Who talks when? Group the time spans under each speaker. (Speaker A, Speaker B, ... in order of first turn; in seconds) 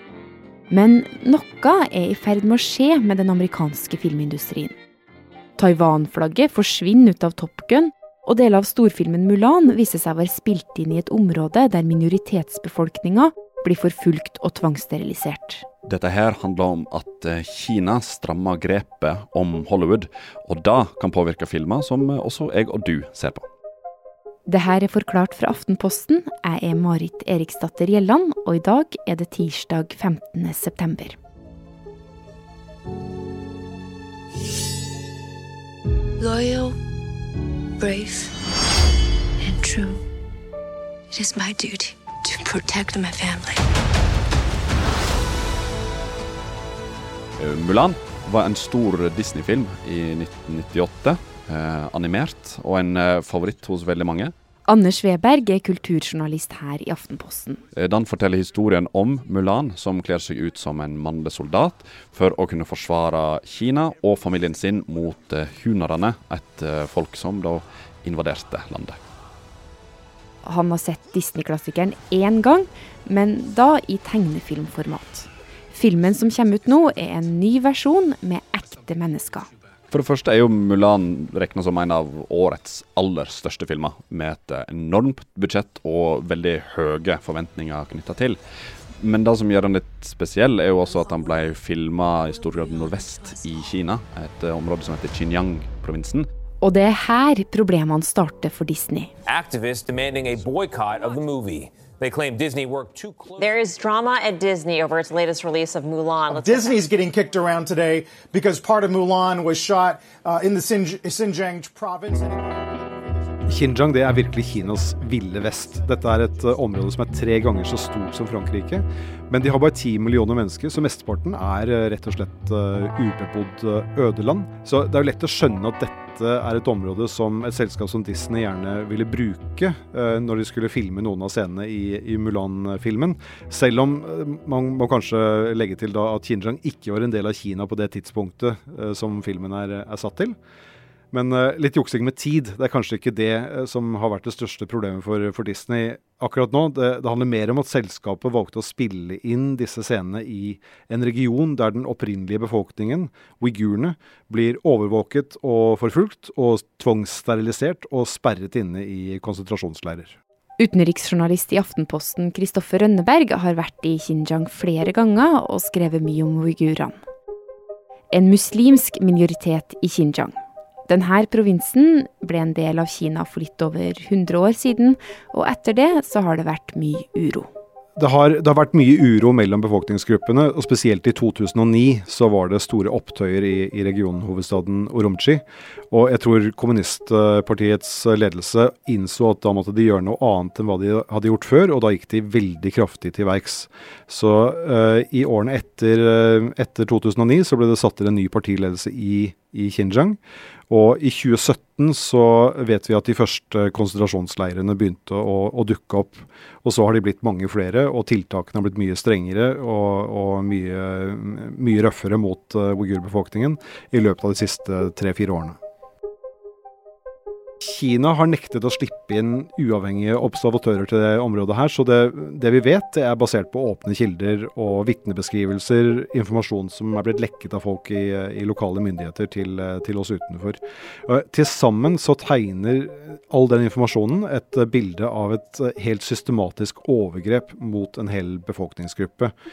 Speaker A: 0.7-4.7, 5.6-15.6, 24.5-31.2, 54.7-57.6, 70.4-79.5, 96.6-99.1, 160.6-166.9, 168.1-170.3, 170.9-177.5
Speaker B: 15.8-23.4, 47.4-54.3, 57.7-69.0, 79.9-88.4, 89.0-96.3
Speaker C: 36.2-36.8, 37.8-38.3, 39.4-40.0, 41.1-43.6
Speaker D: 99.3-103.5
Speaker E: 103.4-106.8
Speaker F: 106.3-113.4
Speaker G: 113.5-140.3, 141.1-160.2, 177.9-200.2, 200.7-215.6, 217.6-239.3